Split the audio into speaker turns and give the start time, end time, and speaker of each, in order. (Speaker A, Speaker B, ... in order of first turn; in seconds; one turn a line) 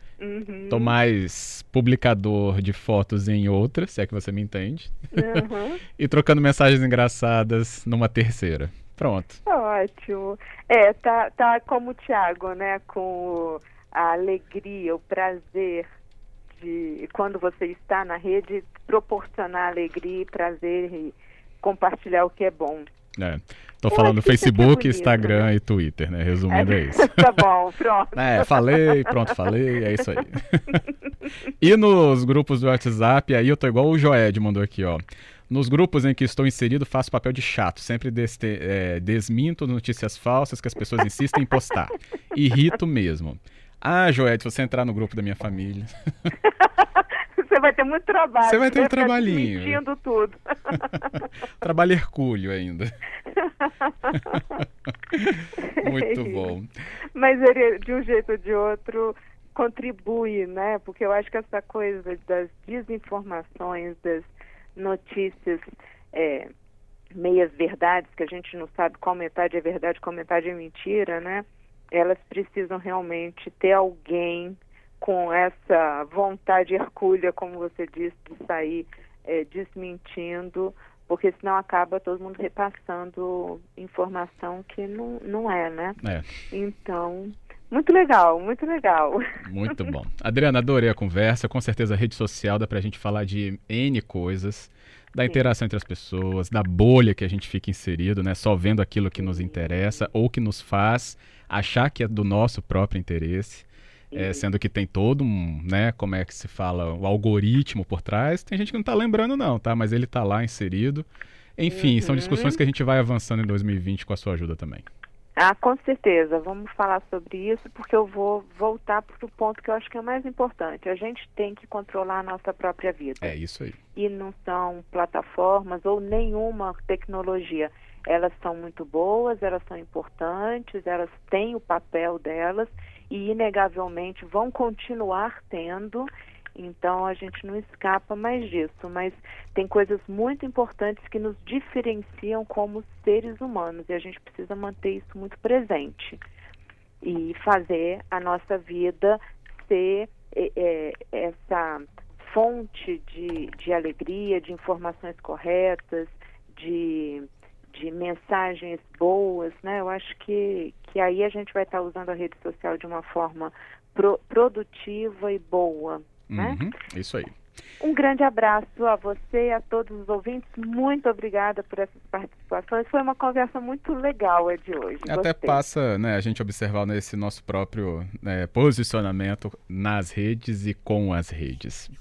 Speaker A: 0.2-0.9
Speaker B: 0.7-5.4
Speaker A: 5.1-5.8
Speaker B: 6.0-9.4
Speaker A: 9.5-15.8
Speaker A: 16.5-22.9
Speaker B: 23.2-27.3
Speaker A: 23.9-25.5
Speaker A: 26.5-29.0
Speaker B: 28.2-30.8
Speaker B: 31.6-45.9
Speaker A: 46.6-51.3
Speaker B: 48.4-49.8
Speaker B: 51.6-52.9
Speaker A: 53.3-54.6
Speaker B: 55.1-56.7
Speaker A: 55.8-56.5
Speaker A: 57.1-65.6
Speaker A: 66.1-66.5
Speaker A: 67.2-86.0
Speaker A: 86.5-89.2
Speaker B: 89.4-111.1
Speaker A: 99.2-100.1
Speaker A: 104.1-104.5
Speaker B: 111.6-114.8
Speaker A: 111.7-112.6
Speaker A: 115.4-123.4
Speaker B: 123.2-123.8
Speaker A: 124.0-146.2
Speaker A: 147.0-166.6
Speaker B: 166.3-167.3
Speaker A: 167.8-175.6
Speaker B: 175.1-181.9